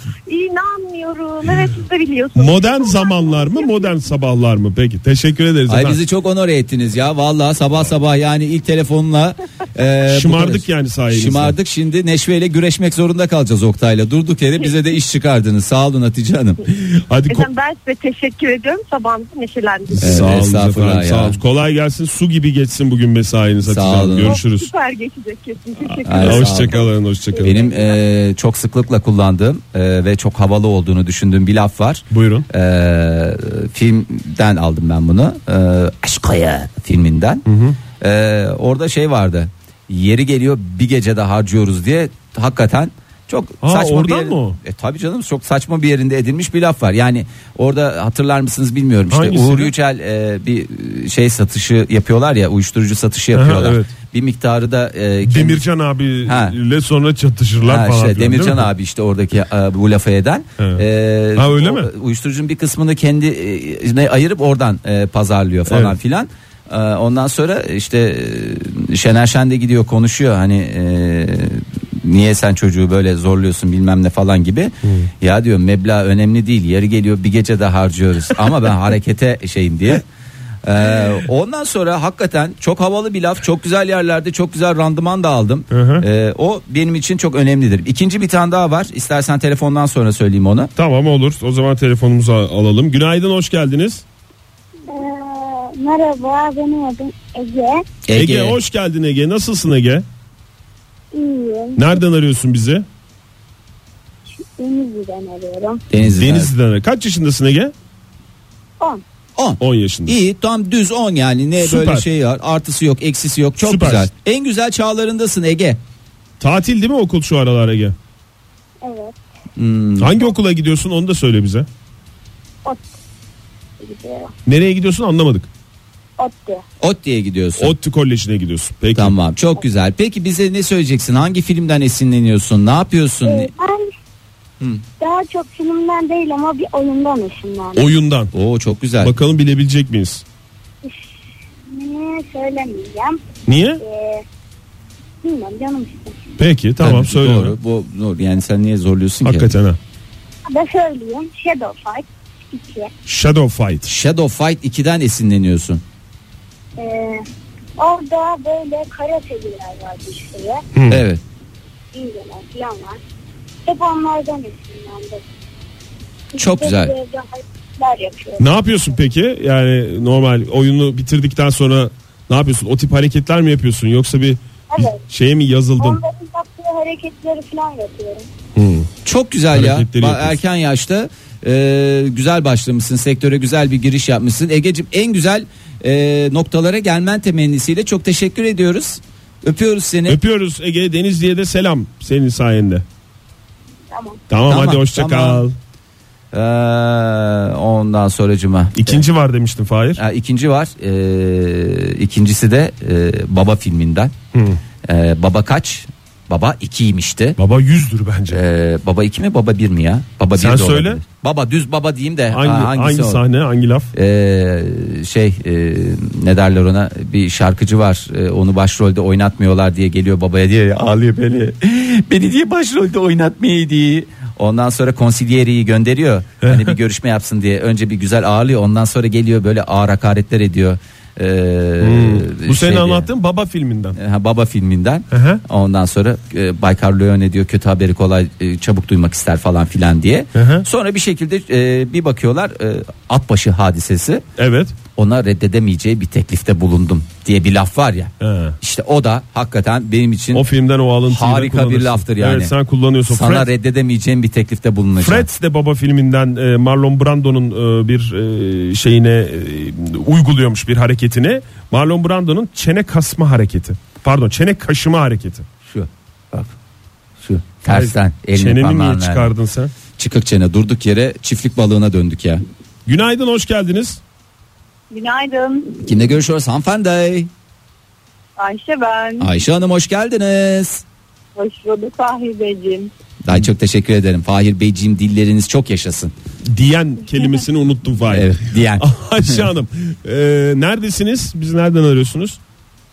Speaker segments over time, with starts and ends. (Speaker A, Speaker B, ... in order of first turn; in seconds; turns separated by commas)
Speaker A: 0.3-4.0, Speaker B: 2.4-6.0, Speaker C: 5.7-16.6, Speaker B: 10.1-11.6, Speaker B: 16.7-17.5, Speaker A: 17.3-20.3, Speaker B: 19.9-24.7, Speaker C: 20.0-21.4, Speaker C: 23.6-24.4, Speaker A: 24.2-28.0, Speaker B: 25.9-27.6, Speaker C: 26.1-26.8, Speaker C: 27.4-37.4, Speaker B: 32.1-32.5, Speaker B: 37.5-37.8, Speaker C: 38.0-55.6, Speaker B: 43.6-44.6, Speaker B: 49.1-49.7, Speaker B: 53.3-53.9, Speaker B: 55.2-58.7, Speaker C: 56.2-56.6, Speaker C: 57.6-80.0, Speaker B: 60.6-60.8, Speaker B: 61.4-61.9, Speaker B: 65.7-66.0, Speaker B: 74.8-75.1, Speaker C: 80.6-90.7, Speaker B: 85.7-86.0, Speaker B: 90.8-94.0, Speaker D: 94.9-97.8, Speaker C: 98.1-98.6, Speaker B: 98.1-100.0, Speaker D: 101.1-101.8, Speaker B: 101.8-102.8, Speaker D: 104.4-105.8, Speaker C: 105.9-106.5, Speaker B: 106.0-107.7, Speaker C: 109.4-115.8, Speaker B: 109.6-110.2, Speaker B: 111.6-112.1, Speaker B: 113.6-114.1, Speaker B: 116.4-118.0, Speaker D: 118.8-119.2, Speaker C: 119.6-120.2, Speaker B: 120.0-121.7, Speaker D: 123.8-124.3, Speaker B: 124.5-125.5, Speaker D: 126.2-126.6, Speaker C: 126.8-127.7, Speaker B: 127.6-129.2, Speaker C: 128.9-133.5, Speaker D: 133.2-133.9, Speaker D: 135.0-137.9, Speaker B: 137.8-138.3, Speaker C: 138.3-139.1, Speaker B: 139.0-140.2, Speaker D: 141.7-143.2, Speaker B: 143.5-143.8, Speaker D: 143.8-144.2, Speaker D: 145.2-146.2, Speaker B: 146.4-147.6, Speaker C: 146.8-149.5, Speaker B: 149.2-149.8, Speaker D: 150.5-152.9, Speaker B: 153.1-153.9, Speaker C: 153.9-155.8, Speaker D: 156.8-157.2, Speaker D: 157.8-160.6, Speaker B: 160.7-161.0, Speaker C: 160.9-161.2, Speaker D: 161.9-163.0, Speaker D: 163.7-165.2, Speaker D: 166.3-168.4, Speaker C: 166.4-166.9, Speaker B: 168.4-176.0, Speaker D: 174.7-175.0, Speaker D: 175.8-178.3, Speaker B: 178.6-178.9, Speaker C: 179.1-190.2, Speaker B: 179.5-180.4, Speaker B: 190.1-192.8, Speaker D: 193.9-194.2, Speaker B: 194.3-195.6, Speaker C: 194.5-195.4, Speaker C: 196.3-199.0, Speaker B: 198.8-200.0, Speaker C: 200.0-204.1, Speaker B: 204.3-204.6, Speaker C: 204.9-207.4, Speaker B: 207.4-208.4, Speaker C: 208.3-213.2, Speaker B: 210.3-211.0, Speaker B: 212.3-213.9, Speaker C: 213.9-233.1, Speaker B: 226.4-226.8, Speaker B: 231.8-234.0, Speaker C: 233.9-244.2, Speaker B: 235.1-235.4, Speaker B: 240.3-240.7, Speaker B: 244.4-244.8, Speaker C: 245.0-250.5, Speaker B: 248.2-248.6, Speaker B: 250.3-253.5, Speaker C: 251.1-252.5, Speaker C: 253.1-255.3, Speaker B: 255.0-265.5, Speaker C: 265.6-266.5, Speaker C: 267.2-269.3, Speaker B: 267.7-269.7, Speaker C: 270.0-272.4, Speaker B: 272.9-274.0, Speaker E: 274.9-275.8, Speaker C: 275.8-277.3, Speaker E: 278.4-279.3, Speaker C: 279.2-280.8, Speaker E: 281.4-282.9, Speaker C: 283.2-286.1, Speaker B: 286.5-292.4, Speaker C: 288.1-289.4